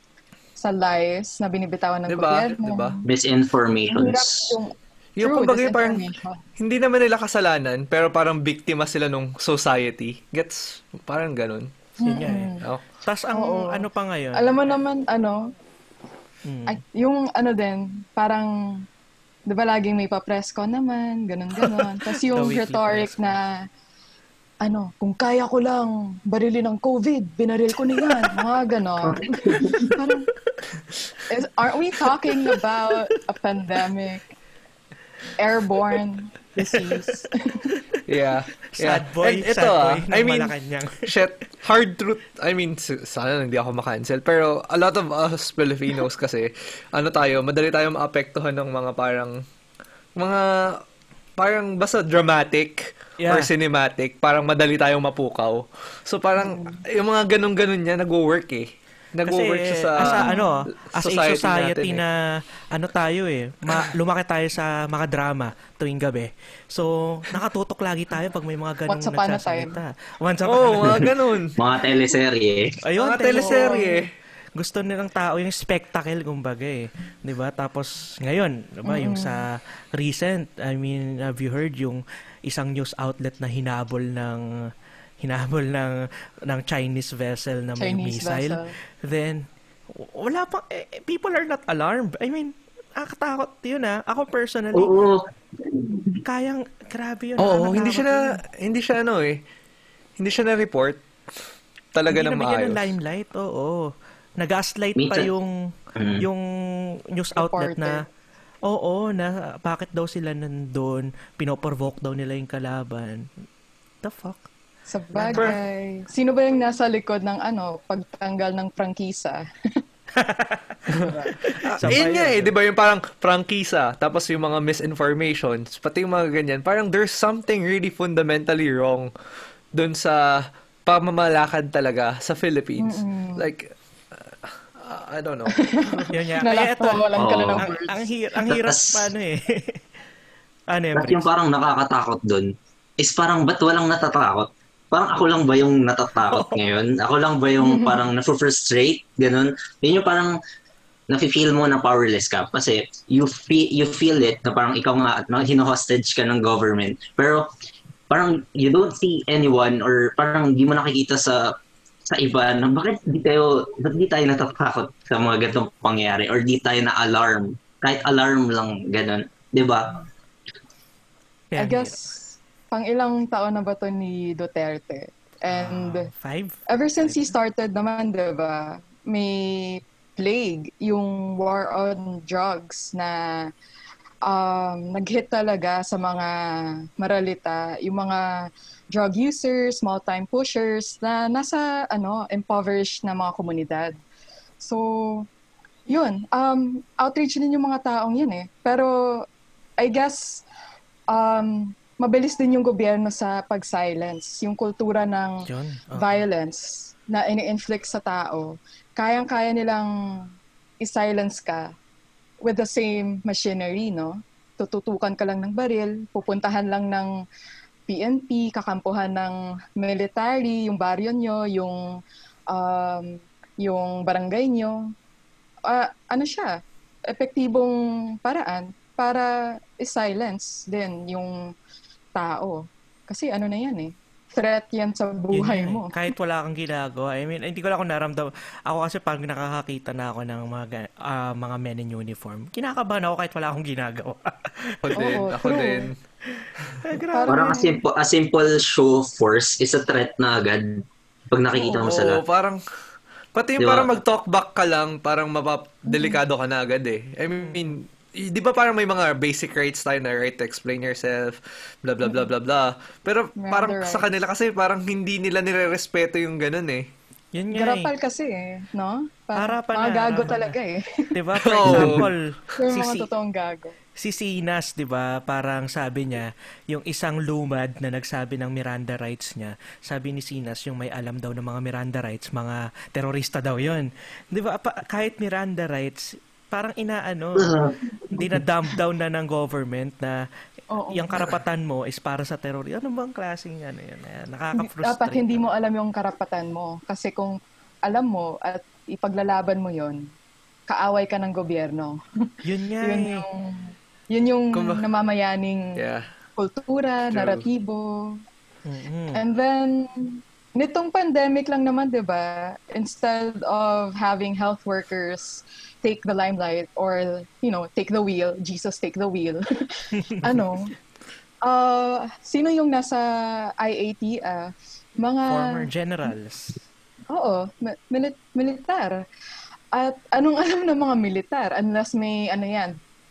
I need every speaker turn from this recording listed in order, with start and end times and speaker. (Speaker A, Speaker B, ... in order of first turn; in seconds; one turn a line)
Speaker A: 0.6-3.1
Speaker B: 2.1-3.0
Speaker C: 3.1-4.6
Speaker A: 3.9-6.4
Speaker B: 5.2-11.7
Speaker A: 12.0-12.7
Speaker D: 12.0-14.6
Speaker A: 13.3-15.5
Speaker D: 16.4-16.8
Speaker A: 16.7-18.9
Speaker A: 19.5-23.7
Speaker D: 21.7-23.4
Speaker A: 24.6-30.3
Speaker C: 29.0-29.9
Speaker A: 31.3-34.3
Speaker D: 32.4-32.6
Speaker A: 35.4-37.8
Speaker D: 36.6-37.0
Speaker B: 38.1-40.5
Speaker D: 38.8-41.1
Speaker B: 41.1-49.4
Speaker B: 50.2-50.8
Speaker B: 51.4-60.4
Speaker D: 53.2-53.5
Speaker A: 56.4-56.8
Speaker D: 59.3-62.2
Speaker A: 60.0-60.5
Speaker B: 61.0-62.0
Speaker D: 62.7-71.1
Speaker A: 68.9-69.7
Speaker B: 70.5-71.6
Speaker C: 71.6-72.8
Speaker D: 72.8-73.8
Speaker B: 73.0-74.1
Speaker A: 73.3-74.1
Speaker D: 74.6-84.5
Speaker A: 78.9-79.4
Speaker D: 85.2-94.9
Speaker A: 87.8-88.8
Speaker C: 94.7-96.2
Speaker D: 96.2-98.1
Speaker B: 97.4-99.4
Speaker A: 97.7-98.4
Speaker B: 100.2-101.0
Speaker B: 102.0-102.9
Speaker D: 102.1-105.5
Speaker C: 105.0-105.3
Speaker C: 106.0-106.2
Speaker D: 106.2-106.4
Speaker D: 107.1-108.0
Speaker A: 107.4-108.0
Speaker D: 108.7-113.3
Speaker D: 114.0-114.5
Speaker A: 114.9-119.8
Speaker D: 115.2-115.5
Speaker B: 115.3-115.6
Speaker D: 120.2-120.8
Speaker A: 120.9-121.3
Speaker D: 121.4-122.5
Speaker B: 121.8-129.1
Speaker B: 129.7-136.1
Speaker A: 132.8-133.5
Speaker A: 135.5-138.1
Speaker D: 136.1-139.8
Speaker C: 137.2-137.7
Speaker C: 138.5-139.1
Speaker D: 140.7-141.3
Speaker C: 140.9-150.4
Speaker A: 147.6-148.0
Speaker C: 151.1-157.5
Speaker C: 158.1-161.6
Speaker C: 162.1-170.0
Speaker D: 171.5-172.0
Speaker A: 171.6-176.1
Speaker D: 175.5-177.3
Speaker A: 176.7-183.5
Speaker A: 184.2-194.0
Speaker A: 194.6-195.3
Speaker A: 195.9-199.3
Speaker A: 199.8-200.4
Speaker A: 201.1-211.7
Speaker D: 205.5-206.3
Speaker A: 212.4-217.1
Speaker A: 217.9-224.9
Speaker A: 225.7-231.5
Speaker A: 232.2-236.0
Speaker D: 235.3-245.2
Speaker B: 244.8-245.9
Speaker A: 245.0-245.9
Speaker D: 246.8-247.6
Speaker A: 247.1-247.8
Speaker C: 247.3-252.2
Speaker B: 251.6-252.6
Speaker B: 253.3-266.9
Speaker C: 253.6-253.9
Speaker A: 255.9-256.2
Speaker D: 257.4-257.7
Speaker A: 262.0-262.3
Speaker A: 263.4-264.1
Speaker D: 267.3-267.9
Speaker A: 267.5-271.2
Speaker D: 269.4-270.6
Speaker D: 271.1-273.1
Speaker B: 271.6-272.1
Speaker C: 271.7-272.0
Speaker A: 272.6-273.8
Speaker D: 274.0-290.2
Speaker C: 287.4-288.2
Speaker A: 290.7-291.3
Speaker D: 290.9-295.4
Speaker A: 294.6-300.1
Speaker A: 300.7-302.0
Speaker D: 302.4-303.3
Speaker A: 302.8-305.8
Speaker B: 304.5-304.9
Speaker B: 305.8-306.1
Speaker A: 306.4-308.2
Speaker B: 307.1-307.5
Speaker D: 308.7-309.2
Speaker A: 309.1-320.8
Speaker A: 321.4-325.7
Speaker D: 325.3-326.6
Speaker A: 327.1-329.0
Speaker A: 329.7-332.8